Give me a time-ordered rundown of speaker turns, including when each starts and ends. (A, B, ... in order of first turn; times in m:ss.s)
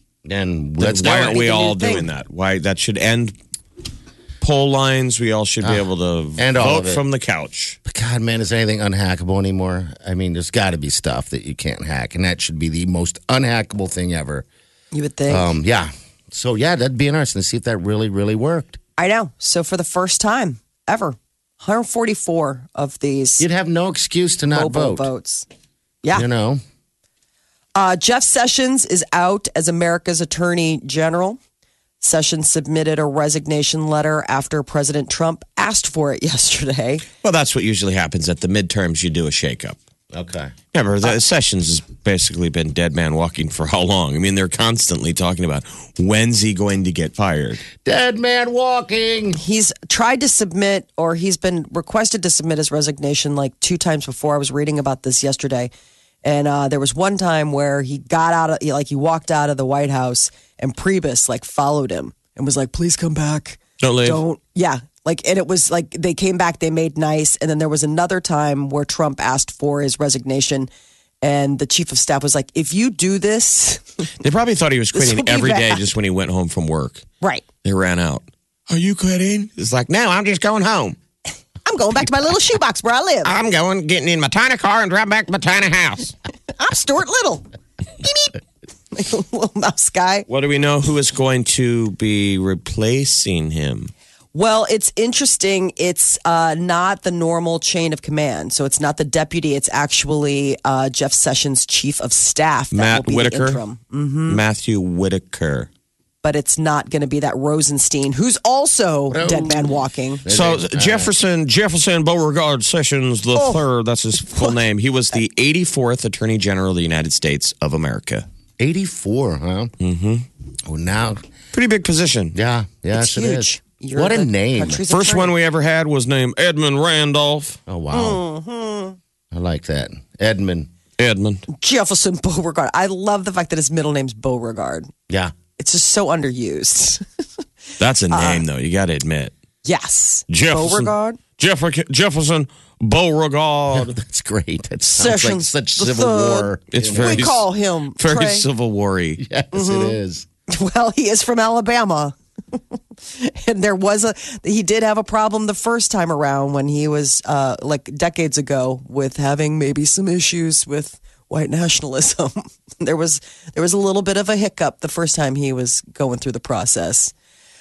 0:00.2-0:01.4 A
0:00.8-0:03.4 B
0:01.0-0:02.1 C
0:04.4-0:07.8 B
0:06.4-0:07.0 A
0:07.9-0:14.5 A
0:14.9-0:15.5 C
0:15.3-0:18.8 A
0:19.0-0:23.5 C
0:23.4-0:25.1 A
0:24.5-0:25.5 C
0:26.1-0:26.6 A
0:27.8-0:31.4 C
0:32.0-0:37.0 C
0:37.2-0:39.8 B
0:40.1-0:40.5 A
0:40.7-0:47.6 B
0:47.8-0:49.4 A
0:49.3-0:55.7 C
0:56.2-1:10.7 C
1:03.8-1:04.2 B
1:11.2-1:14.1 C
1:14.2-1:17.1 B
1:14.9-1:15.8 C
1:17.6-1:21.0 B
1:21.6-1:23.3 C
1:23.2-1:26.1 B
1:26.6-1:27.4 C
1:28.0-1:28.3 C
1:28.9-1:30.3 C
1:30.3-1:33.9 B
1:34.3-1:44.4 C
1:42.7-1:43.6 B
1:44.3-1:45.7 B
1:46.2-1:50.2 C
1:49.1-1:51.1 A
1:50.3-1:58.3 B
1:53.4-1:53.6 C
1:58.6-1:59.7 A
1:59.8-2:00.3 B
2:00.7-2:01.2 A
2:01.5-2:02.4 B
2:02.3-2:04.8 A
2:02.9-2:05.3 C
2:04.9-2:07.6 B
2:07.7-2:08.2 A
2:07.9-2:09.0 C
2:09.3-2:10.7 A
2:11.0-2:11.4 B
2:11.5-2:14.9 C
2:15.1-2:15.3 A
2:15.6-2:17.0 C
2:17.8-2:19.3 B
2:18.1-2:18.4 C
2:19.6-2:21.2 C
2:20.3-2:23.9 B
2:23.7-2:27.4 A
2:24.8-2:28.5 C
2:26.7-2:29.2 B
2:29.2-2:30.3 A
2:29.5-2:30.0 C
2:30.5-2:32.2 C
2:33.1-2:47.1 C